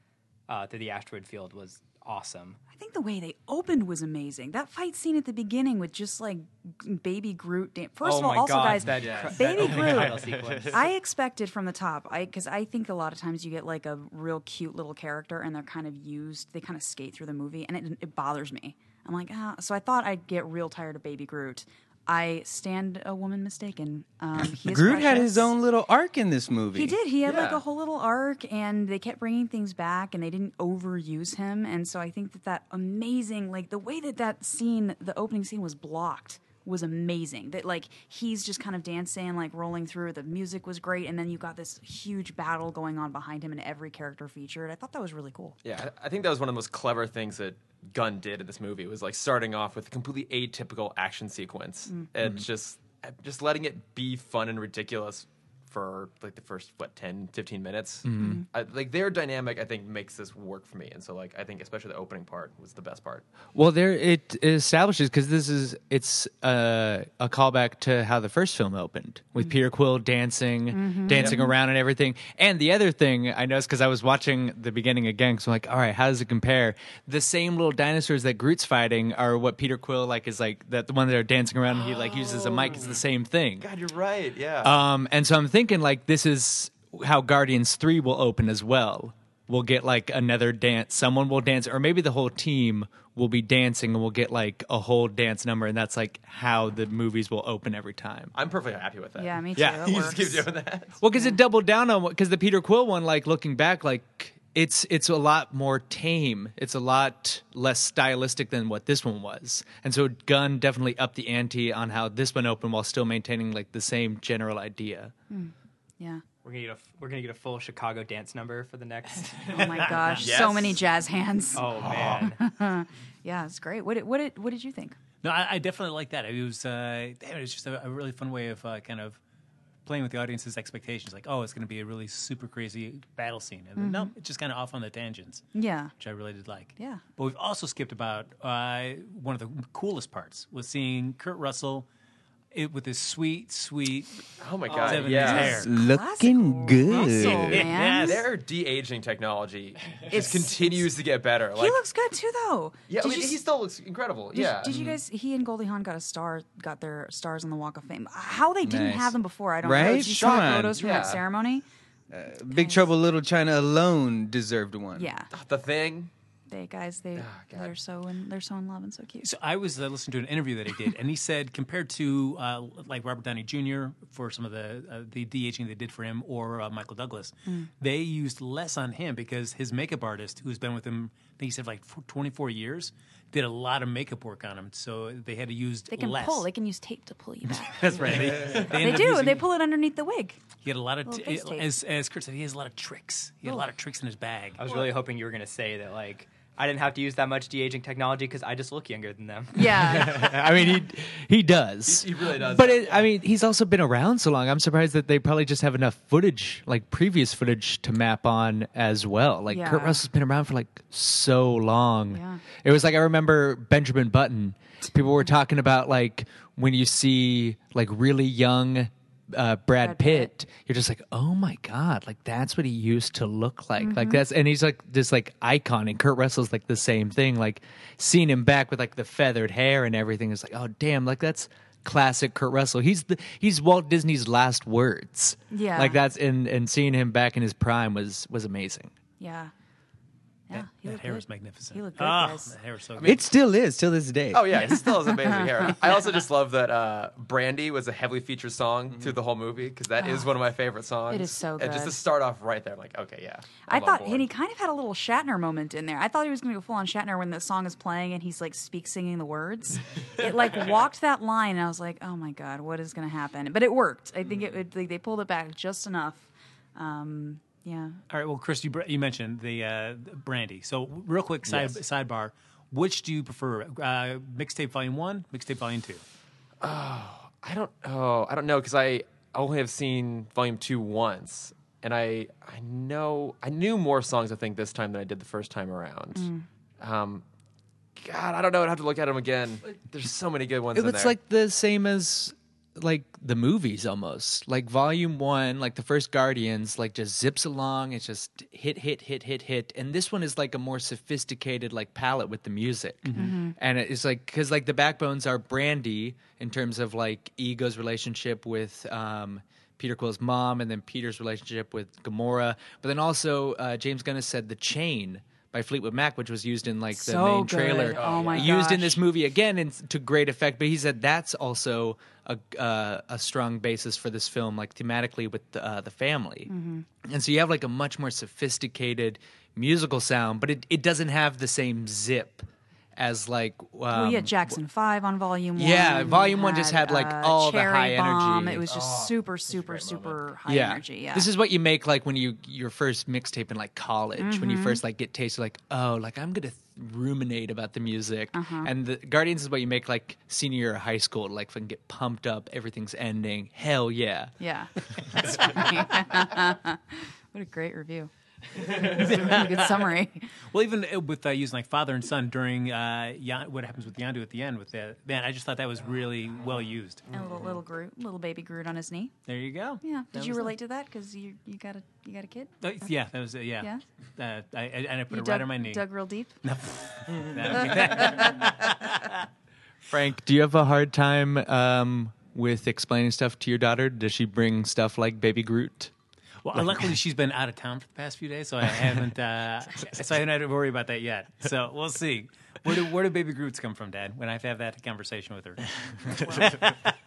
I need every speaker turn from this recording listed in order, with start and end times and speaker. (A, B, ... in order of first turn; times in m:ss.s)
0:00.5-0:02.6 A
0:02.7-0:25.5 B
0:08.0-0:10.8 A
0:08.9-0:10.8 C
0:24.6-0:27.0 D
0:26.7-0:45.6 B
0:27.2-0:27.6 C
0:45.6-1:03.2 C
0:58.0-0:58.4 E
0:58.2-0:58.4 B
1:03.5-1:23.7 E
1:10.7-1:11.5 B
1:11.1-1:11.4 C
1:22.6-1:23.0 C
1:23.6-1:24.8 C
1:24.6-1:38.3 E
1:38.3-1:41.0 C
1:39.2-1:40.5 B
1:39.6-1:39.9 E
1:41.0-1:55.1 E
1:55.3-1:56.2 B
1:56.4-2:00.2 A
1:59.5-2:05.0 B
1:59.5-2:00.1 F
2:00.2-2:00.8 C
2:01.5-2:02.4 A
2:05.2-2:09.2 F
2:09.8-2:15.4 F
2:13.8-2:14.1 B
2:15.5-2:15.9 B
2:16.0-2:21.9 F
2:16.8-2:17.0 B
2:22.5-2:24.2 F
2:24.4-2:25.6 C
2:24.8-2:25.7 F
2:25.1-2:28.2 B
2:25.5-2:27.7 D
2:26.8-2:28.2 F
2:28.0-2:31.8 C
2:30.1-2:30.9 B
2:31.5-2:33.4 B
2:32.9-2:35.0 C
2:34.3-2:41.6 B
2:38.6-2:40.9 D
2:39.7-2:41.2 C
2:42.1-2:45.1 D
2:42.5-2:42.8 B
2:44.9-2:45.3 B
2:45.3-2:46.1 C
2:46.5-2:49.3 B
2:47.2-2:47.7 C
2:49.2-3:06.5 F
3:05.9-3:10.4 B
3:07.5-3:09.5 F
3:10.6-3:14.6 F
3:11.0-3:11.6 B
3:13.4-3:13.7 B
3:14.6-3:19.6 A
3:19.5-3:20.6 B
3:19.6-3:58.9 E
3:21.8-3:23.1 C
3:29.5-3:30.0 B
3:32.1-3:32.4 B
3:39.8-3:40.3 B
3:43.8-3:44.2 B
3:55.5-3:56.0 B
3:59.2-3:59.5 B
4:00.5-4:02.5 B
4:00.5-4:03.2 F
4:03.0-4:04.5 D
4:04.3-4:14.3 C
4:04.7-4:05.7 B
4:10.0-4:10.3 B
4:11.1-4:12.0 B
4:13.7-4:28.0 B
4:28.1-4:36.0 F
4:36.6-4:47.2 C
4:46.1-4:46.4 B
4:48.0-4:51.2 C
4:50.7-5:26.5 E
5:03.2-5:03.5 B
5:16.9-5:19.0 B
5:17.9-5:18.6 C
5:26.4-5:26.8 B
5:27.0-5:34.6 E
5:33.9-5:41.3 B
5:35.6-5:38.6 E
5:38.6-5:40.2 C
5:40.4-5:54.3 E
5:44.2-5:44.8 B
5:48.3-5:48.7 B
5:54.4-5:58.1 B
5:58.7-6:00.3 B
5:58.7-5:59.9 F
6:00.5-6:07.0 F
6:07.1-6:09.1 B
6:09.2-6:10.5 F
6:09.8-6:12.5 B
6:12.6-6:15.8 F
6:15.1-6:16.4 B
6:16.4-6:19.2 F
6:17.9-6:18.3 B
6:19.9-6:25.9 E
6:26.4-6:36.9 F
6:26.6-6:26.9 E
6:36.2-6:36.5 B